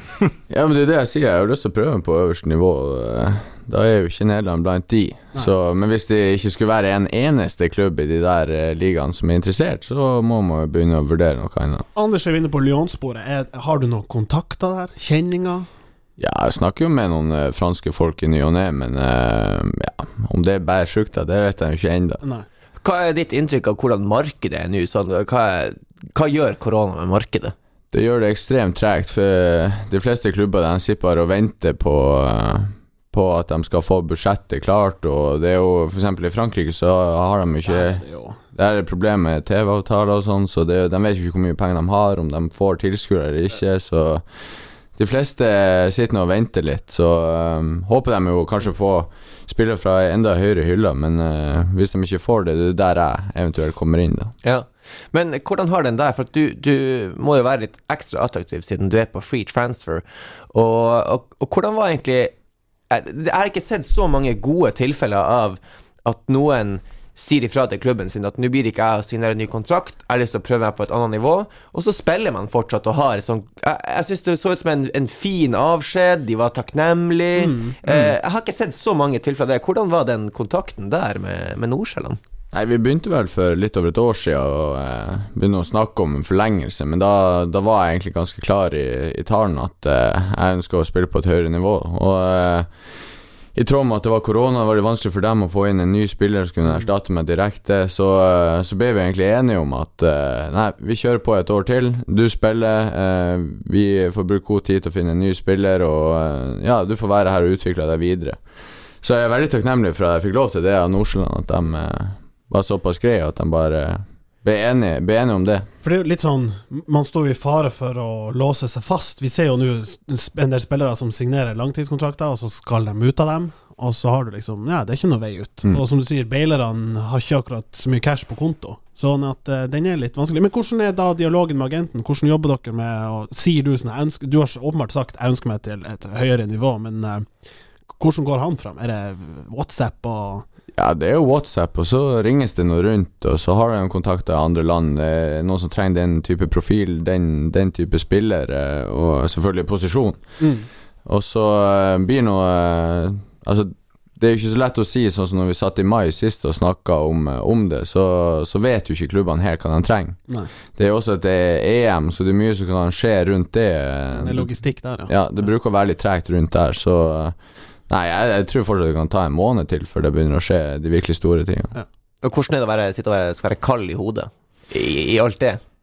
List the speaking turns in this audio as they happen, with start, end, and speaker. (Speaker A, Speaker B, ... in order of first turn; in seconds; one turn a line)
Speaker A: 0.5-11.9
Speaker B: 11.9-15.7
Speaker A: 16.2-22.2
Speaker C: 22.8-27.5
Speaker A: 27.9-44.2
Speaker B: 37.7-38.4
Speaker A: 45.0-54.3
Speaker C: 54.4-62.3
Speaker C: 62.9-82.2
Speaker B: 77.3-77.8
Speaker A: 82.5-92.7
Speaker A: 93.5-108.4
Speaker A: 109.0-115.7
Speaker B: 115.8-137.3
Speaker B: 137.9-140.4
Speaker A: 140.8-150.2
Speaker B: 150.4-150.7
Speaker A: 151.1-160.2
Speaker A: 160.8-164.5
Speaker B: 164.2-165.1
Speaker A: 165.1-167.4
Speaker A: 167.9-171.8
Speaker C: 172.2-175.6